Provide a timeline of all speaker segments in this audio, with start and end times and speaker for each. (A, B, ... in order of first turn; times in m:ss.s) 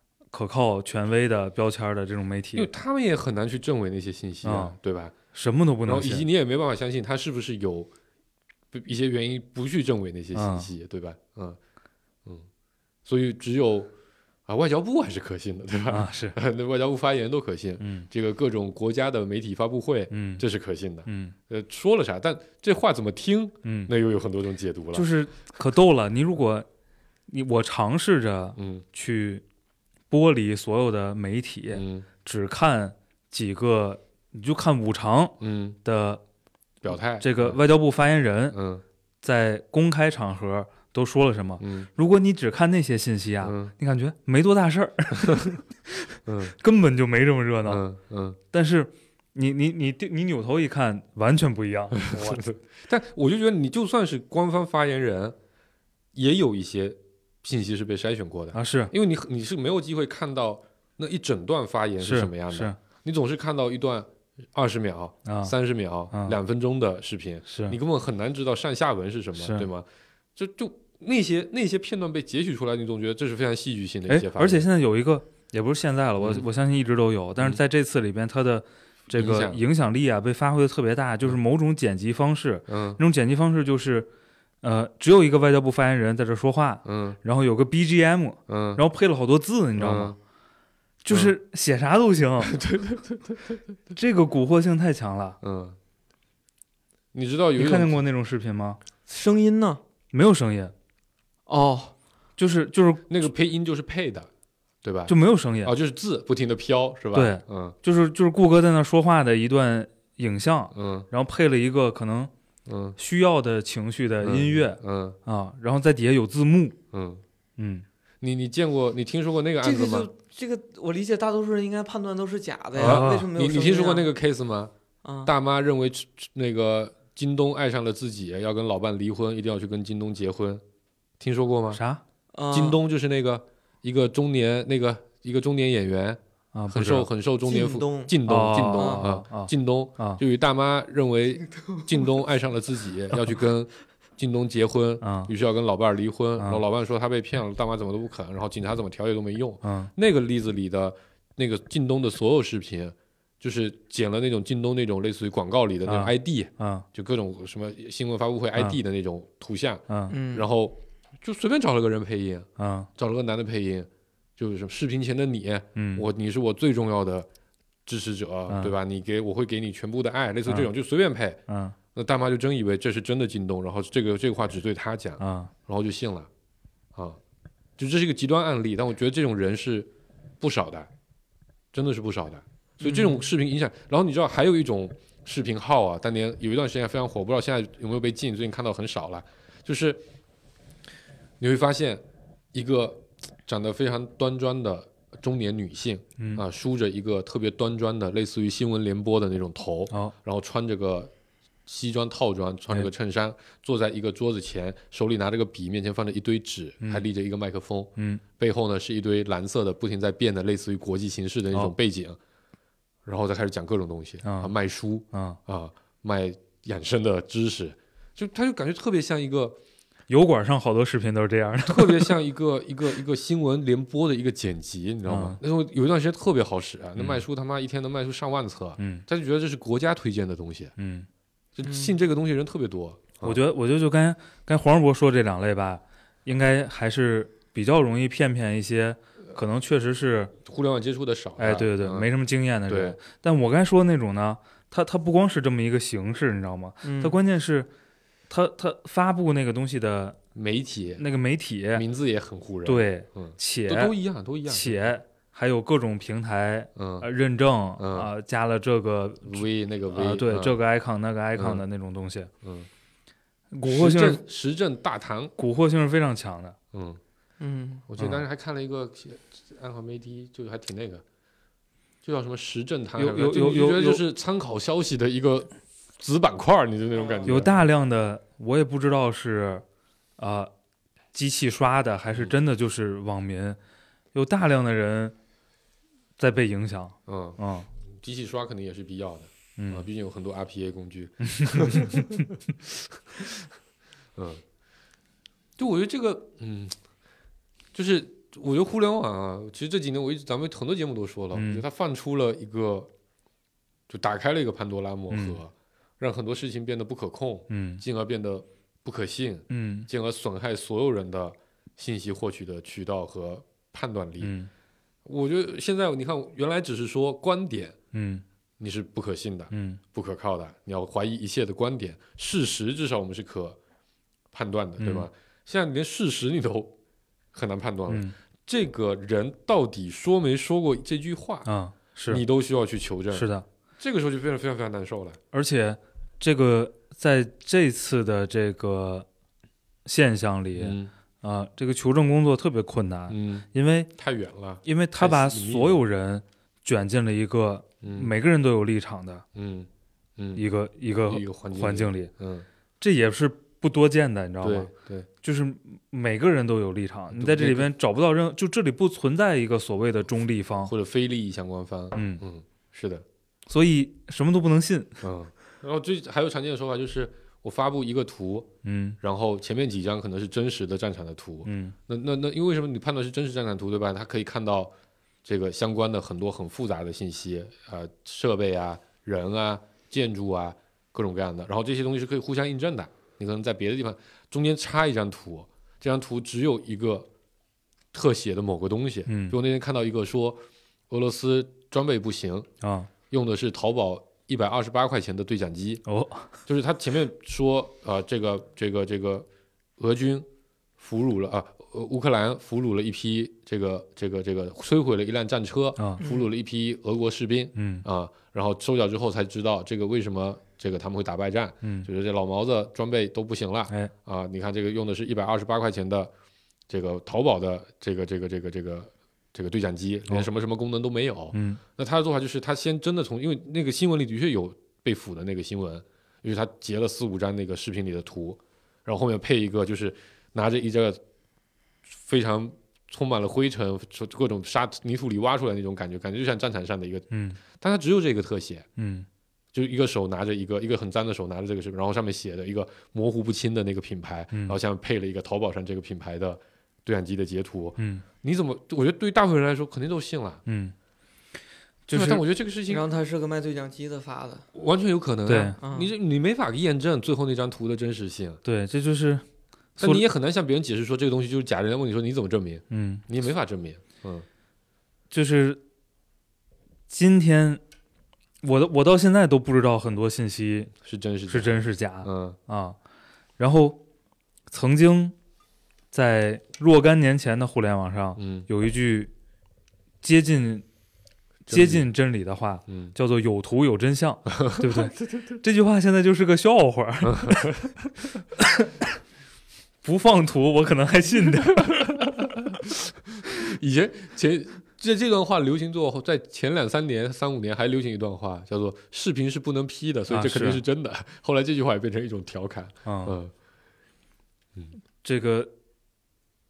0:00.3-0:02.7 A
0:02.6-0:05.1 B
0:04.4-0:04.8 A
0:05.3-0:06.3 A
0:05.9-0:07.9 B
0:08.7-0:11.6 B
0:10.3-0:10.7 A
0:13.0-0:13.9 B
0:14.5-0:25.1 B
0:15.9-0:16.4 A
0:17.8-0:18.1 A
0:20.1-0:20.4 A
0:21.1-0:21.3 A
0:23.6-0:23.9 A
0:24.9-0:26.7 A
0:27.3-0:29.4 A
0:28.6-0:28.8 B
0:30.1-0:36.2 A
0:31.7-0:32.1 B
0:35.4-0:35.8 B
0:36.8-0:37.6 B
0:37.2-0:38.6 A
0:38.5-0:38.8 B
0:39.2-0:47.9 A
0:41.6-0:41.9 B
0:43.4-0:43.7 B
0:46.3-0:46.6 B
0:47.6-0:48.4 B
0:48.5-0:52.4 A
0:52.0-0:55.4 B
0:56.1-1:14.7 B
0:58.5-0:58.9 A
1:02.0-1:02.8 A
1:05.3-1:05.5 A
1:06.1-1:06.4 A
1:07.5-1:07.8 A
1:09.4-1:09.7 A
1:14.1-1:24.1 A
1:16.2-1:16.5 B
1:19.1-1:19.6 B
1:22.7-1:23.0 B
1:24.6-1:30.2 A
1:26.8-1:27.2 B
1:28.5-1:28.8 B
1:29.8-1:30.2 B
1:31.0-1:32.6 A
1:32.4-1:33.6 B
1:33.9-1:35.4 A
1:35.4-1:35.8 B
1:37.1-1:38.0 B
1:37.6-1:38.8 A
1:39.1-1:39.8 C
1:40.1-1:40.7 A
1:41.5-1:41.9 C
1:42.4-1:43.2 A
1:43.1-1:44.3 B
1:44.8-1:47.8 B
1:45.1-1:45.7 A
1:47.1-1:52.3 A
1:50.7-1:51.1 B
1:52.7-1:53.0 B
1:53.0-1:56.8 A
1:54.2-1:55.2 B
1:56.9-1:57.2 B
1:57.6-1:57.8 A
1:58.2-2:00.1 B
1:59.6-2:04.1 C
2:02.8-2:03.3 A
2:02.8-2:04.7 B
2:05.0-2:05.3 C
2:05.2-2:10.6 B
2:11.2-2:11.8 B
2:11.7-2:12.0 A
2:12.3-2:12.8 C
2:12.5-2:47.3 B
2:16.5-2:17.1 A
2:17.4-2:18.1 C
2:18.3-2:20.2 A
2:18.7-2:19.1 C
2:25.0-2:25.3 A
2:29.6-2:29.9 A
2:35.8-2:36.8 A
2:39.9-2:40.1 A
2:40.1-2:40.5 C
2:42.6-2:42.9 A
2:45.8-2:46.1 A
2:47.9-2:51.4 B
2:48.5-2:48.7 A
2:51.5-2:51.8 A
2:52.0-2:56.3 B
2:55.2-2:55.5 A
2:57.8-3:00.9 B
3:01.7-3:10.0 B
3:02.8-3:03.2 C
3:11.4-3:21.1 B
3:21.7-3:32.2 B
3:28.0-3:28.2 A
3:33.0-3:39.6 B
3:34.2-3:34.5 A
3:35.1-3:35.4 A
3:40.1-3:42.2 A
3:41.7-3:50.7 B
3:45.1-3:45.4 A
3:48.8-3:49.0 A
3:50.8-3:51.1 A
3:51.6-3:53.4 B
3:51.6-3:52.0 C
3:53.2-4:00.4 A
4:00.4-4:02.1 B
4:01.4-4:07.7 A
4:02.7-4:03.0 B
4:06.8-4:07.2 C
4:08.3-4:10.2 A
4:10.4-4:11.0 B
4:11.0-4:11.9 A
4:11.7-4:14.9 B
4:12.6-4:13.9 A
4:14.5-4:22.3 A
4:16.8-4:17.1 B
4:17.8-4:18.1 B
4:19.2-4:20.6 B
4:21.4-4:21.6 B
4:22.4-4:22.7 B
4:23.5-4:24.2 A
4:23.6-4:25.3 B
4:25.4-4:26.6 A
4:26.7-4:27.0 B
4:27.4-4:27.8 C
4:27.9-4:31.0 B
4:32.0-4:37.5 B
4:33.0-4:34.0 A
4:37.0-4:37.3 C
4:37.2-4:39.6 A
4:40.2-4:40.5 A
4:41.1-4:43.6 A
4:44.1-4:45.1 A
4:46.2-4:47.7 A
4:47.1-4:53.5 B
4:49.6-4:49.9 A
4:51.3-4:52.2 A
4:54.2-4:54.4 B
4:55.6-4:56.8 B
4:57.7-5:02.9 B
5:01.3-5:01.6 A
5:03.9-5:14.3 B
5:05.1-5:05.4 A
5:07.5-5:07.8 A
5:09.5-5:09.9 A
5:14.2-5:14.5 A
5:15.0-5:17.8 B
5:17.9-5:18.2 A
5:18.6-5:23.6 B
5:19.5-5:19.8 A
5:24.3-5:26.7 B
5:24.8-5:25.1 A
5:27.3-5:31.5 B
5:27.9-5:28.1 A
5:31.5-5:32.2 A
5:32.1-5:35.2 B
5:33.1-5:33.4 A
5:35.3-5:39.1 A
5:39.8-5:43.9 A
5:40.6-5:40.9 B
5:43.1-5:45.8 B
5:44.6-5:49.2 A
5:47.8-5:48.1 B
5:49.4-5:50.4 B
5:50.4-5:52.1 A
5:51.1-5:52.5 B
5:52.8-5:54.7 A
5:54.4-5:55.1 B
5:55.2-6:00.7 A
5:57.1-5:57.7 B
6:00.7-6:03.0 B
6:01.9-6:02.2 A
6:03.5-6:05.0 A
6:05.0-6:08.5 B
6:08.6-6:09.0 A
6:09.0-6:14.7 B
6:11.5-6:11.8 A
6:15.2-6:27.1 B
6:27.9-6:32.5 B
6:29.1-6:29.4 A
6:32.6-6:32.9 A
6:33.1-6:35.8 B
6:35.9-6:36.3 A
6:36.5-6:39.3 B
6:39.8-6:40.3 B
6:40.8-6:56.1 B
6:47.6-6:47.8 A
6:51.6-6:51.9 A
6:56.7-7:11.0 B
7:01.3-7:01.6 A
7:11.9-7:18.7 B
7:17.1-7:17.4 A
7:18.8-7:19.1 A
7:19.5-7:30.4 B
7:27.8-7:28.0 A
7:30.5-7:30.7 A
7:31.9-7:32.2 A
7:31.9-7:32.8 B
7:32.7-7:34.5 C
7:34.5-7:38.4 B
7:35.3-7:35.6 A
7:35.6-7:35.9 C
7:38.4-7:39.2 A
7:39.8-7:40.0 A
7:39.8-7:44.3 B
7:42.7-7:43.0 A
7:45.1-7:45.6 A
7:46.9-7:47.6 A
7:48.4-7:50.7 A
7:50.8-7:51.5 B
7:51.3-7:52.8 A
7:52.0-7:52.4 B
7:53.4-7:53.8 A
7:54.5-7:55.1 A
7:55.9-7:59.1 A
7:58.2-7:58.5 B
8:00.0-8:00.6 A
8:01.5-8:07.7 A
8:01.5-8:01.9 B
8:02.7-8:02.9 B
8:04.3-8:04.9 B
8:07.0-8:07.6 B
8:08.4-8:08.9 A
8:09.8-8:11.8 A
8:11.5-8:23.3 B
8:20.1-8:20.6 A
8:22.8-8:23.2 A
8:25.0-8:25.5 A